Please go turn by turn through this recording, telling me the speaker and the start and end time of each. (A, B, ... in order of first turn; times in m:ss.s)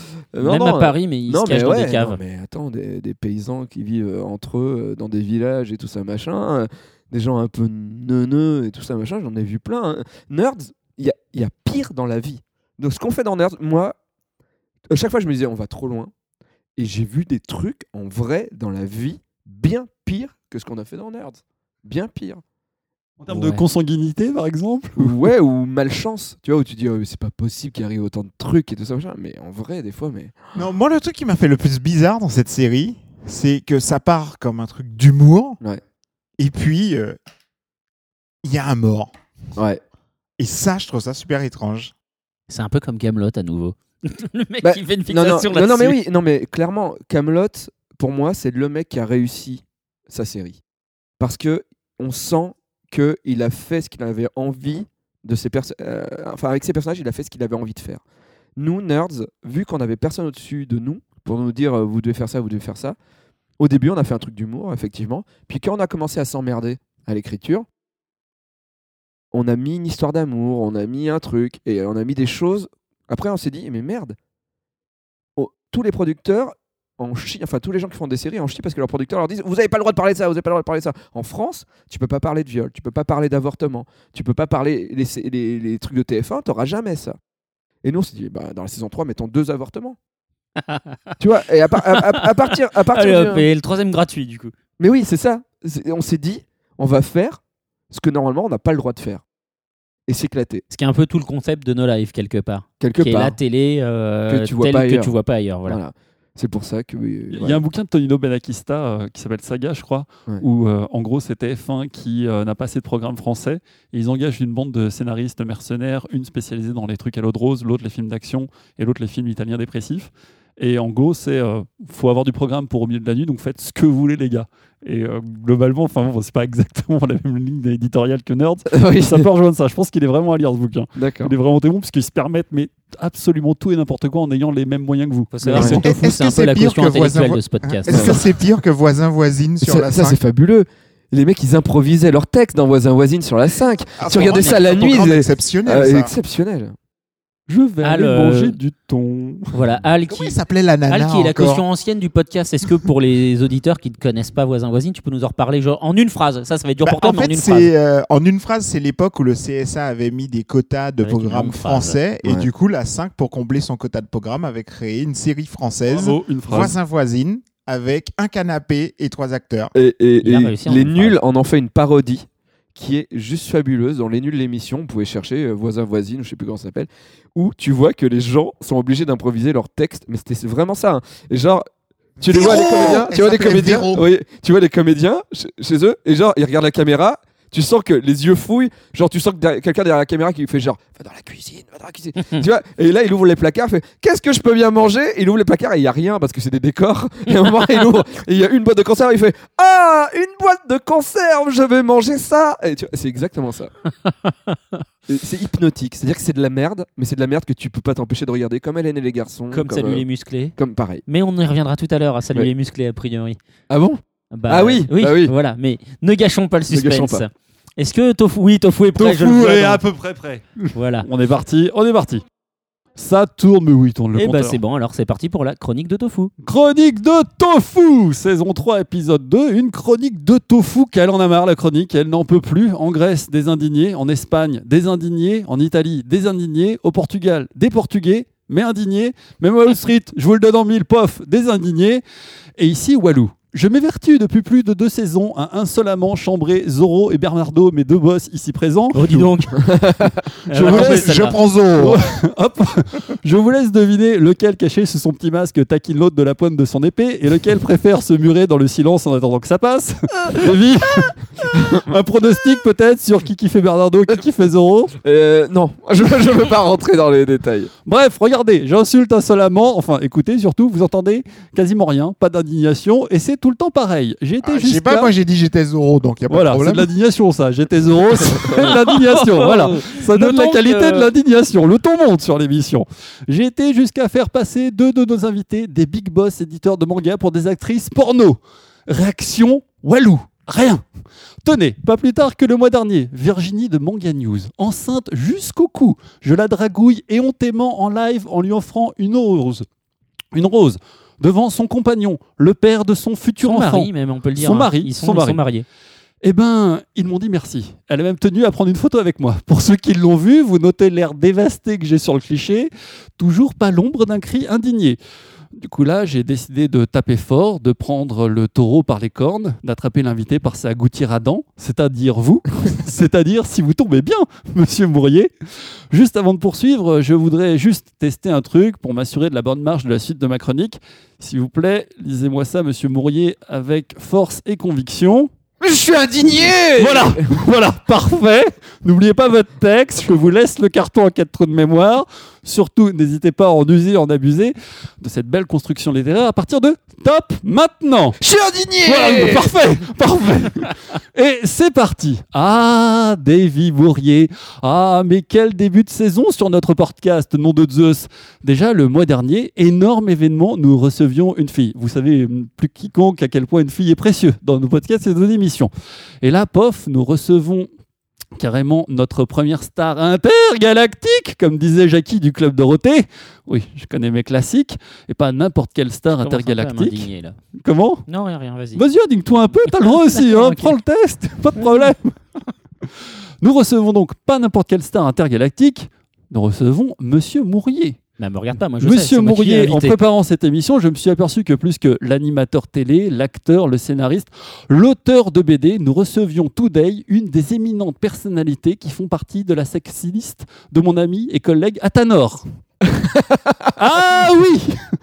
0:00.3-0:14.0 A
0:00.4-0:02.2 B
0:14.9-0:16.1 A
0:16.8-0:22.4 A
0:23.2-0:25.2 C
0:23.3-0:23.6 B
0:25.0-0:30.4 A
0:30.6-0:35.6 D
0:36.4-0:37.2 D
0:38.4-0:39.1 D
0:39.6-0:39.8 A
0:40.4-0:41.9 D
0:42.5-0:46.0 B
0:44.6-0:50.6 A
0:51.2-0:58.0 A
0:58.6-1:03.0 A
1:03.6-1:07.7 A
1:09.3-1:14.2 A
1:15.4-1:27.2 A
1:27.8-1:30.0 A
1:30.6-1:31.2 B
1:31.2-1:33.5 A
1:31.8-1:34.5 B
1:34.8-1:37.4 A
1:37.9-1:39.2 A
1:40.1-1:40.6 A
1:40.7-1:45.8 B
1:42.8-1:43.4 A
1:44.3-1:45.1 A
1:45.7-1:47.6 A
1:47.3-2:15.9 C
2:08.7-2:09.3 A
2:11.0-2:11.3 A
2:15.3-2:18.1 B
2:15.5-2:15.8 A
2:15.8-2:20.2 D
2:17.9-2:18.2 A
2:19.6-2:26.8 A
2:24.0-2:26.1 D
2:24.2-2:24.6 B
2:27.5-2:29.6 C
2:27.8-2:28.6 B
2:29.5-2:30.4 B
2:30.1-2:31.6 D
2:30.9-2:37.7 B
2:36.8-2:49.7 D
2:41.0-2:42.0 B
2:45.9-2:46.7 C
2:49.7-3:01.7 A
2:50.2-2:51.2 B
3:02.2-3:23.7 A
3:02.2-3:04.1 D
3:24.0-3:24.8 B
3:25.1-3:30.0 A
3:29.5-3:30.6 B
3:30.6-3:31.0 A
3:31.1-3:33.4 B
3:33.7-3:35.3 A
3:34.3-3:39.8 B
3:36.7-3:37.2 A
3:39.0-3:42.2 C
3:40.7-3:41.1 B
3:43.0-3:44.6 C
3:44.2-3:46.3 B
3:46.4-4:02.0 C
4:02.6-4:09.3 C
4:08.9-4:09.6 B
4:09.6-4:10.1 A
4:10.5-4:11.4 B
4:10.5-4:21.2 C
4:10.6-4:12.0 D
4:21.6-4:21.9 A
4:21.7-4:24.9 C
4:25.0-4:27.7 A
4:27.9-4:35.1 C
4:34.4-4:36.9 D
4:36.3-4:50.8 C
4:38.6-4:41.1 B
4:51.4-4:59.6 C
5:00.3-5:05.4 C
5:03.4-5:05.6 B
5:06.2-5:15.0 C
5:15.6-5:25.3 C
5:25.9-5:35.3 C
5:35.6-5:37.3 A
5:36.7-5:48.2 C
5:48.2-5:49.6 A
5:48.8-6:05.7 C
6:06.2-6:07.7 C
6:08.4-6:17.1 C
6:16.2-6:17.4 B
6:17.6-6:18.0 C
6:18.1-6:18.8 B
6:18.7-6:22.2 C
6:19.7-6:20.8 B
6:21.6-6:21.9 B
6:23.4-6:28.0 C
6:28.2-6:30.0 B
6:28.8-6:42.4 C
6:42.9-6:43.7 A
6:43.8-6:44.8 C